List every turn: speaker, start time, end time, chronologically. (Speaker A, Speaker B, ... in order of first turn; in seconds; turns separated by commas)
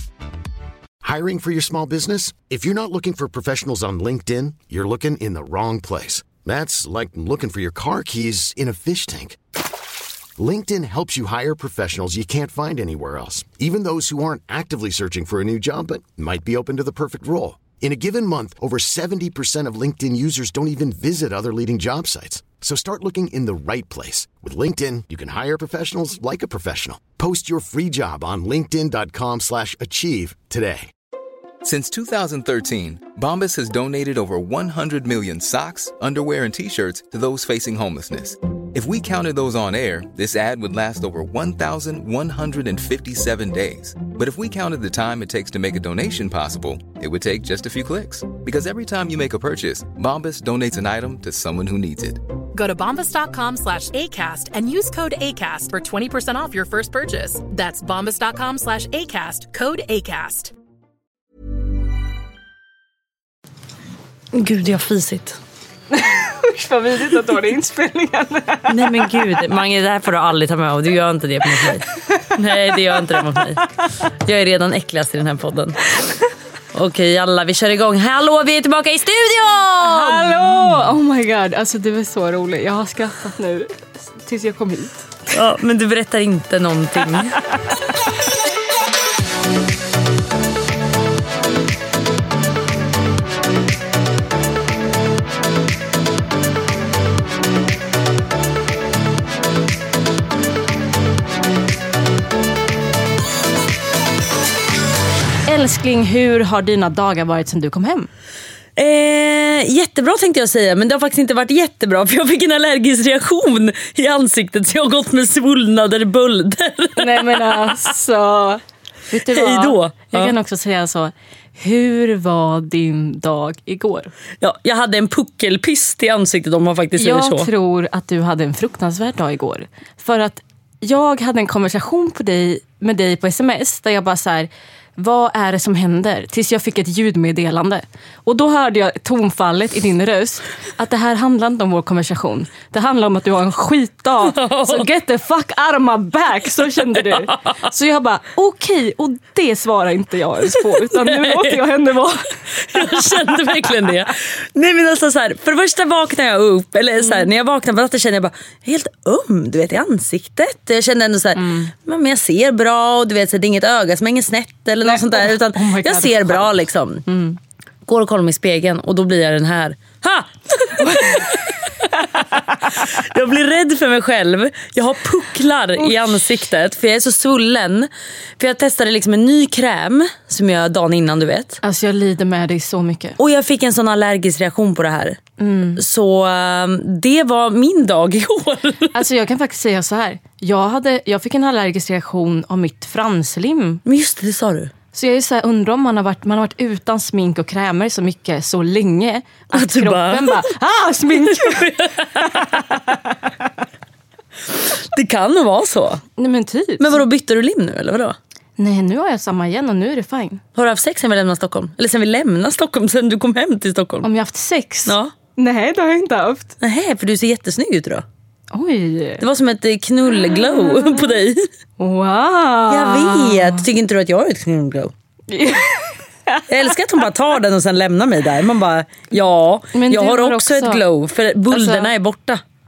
Speaker A: 1.0-9.4, Speaker A: 10.4-30.9, Speaker B: 31.6-52.2, Speaker C: 52.5-60.5, Speaker D: 64.3-65.4, Speaker E: 65.9-69.1, Speaker D: 68.7-73.7, Speaker D: 74.2-75.8, Speaker D: 76.7-80.6, Speaker E: 79.8-85.1, Speaker D: 85.3-87.4, Speaker E: 105.5-108.1, Speaker D: 108.8-117.8, Speaker E: 117.0-124.1, Speaker D: 119.3-120.3, Speaker D: 124.4-127.5, Speaker E: 127.0-153.1, Speaker D: 144.3-144.9, Speaker D: 146.9-147.3, Speaker D: 150.6-151.6, Speaker D: 152.6-167.1, Speaker E: 157.0-157.3, Speaker E: 161.4-161.7, Speaker E: 164.8-166.5, Speaker E: 167.1-167.4, Speaker D: 167.9-171.6, Speaker E: 170.8-171.3, Speaker D: 172.7-181.6, Speaker E: 175.8-176.2, Speaker E: 181.6-183.2, Speaker D: 183.2-185.2, Speaker E: 185.4-185.8, Speaker D: 185.8-189.0, Speaker E: 188.9-193.8, Speaker D: 193.8-194.7, Speaker E: 194.9-202.8, Speaker D: 199.5-200.5, Speaker D: 201.1-202.8, Speaker D: 204.7-206.0, Speaker E: 206.2-207.0, Speaker D: 206.8-208.2, Speaker E: 208.6-210.4, Speaker D: 210.6-214.1, Speaker E: 214.0-216.6, Speaker D: 214.9-215.1, Speaker D: 216.6-218.1, Speaker E: 218.5-219.2, Speaker D: 219.2-221.5, Speaker E: 221.8-223.6, Speaker D: 222.7-224.9, Speaker E: 225.3-226.7, Speaker D: 226.5-232.4, Speaker E: 229.7-230.8, Speaker E: 231.5-231.9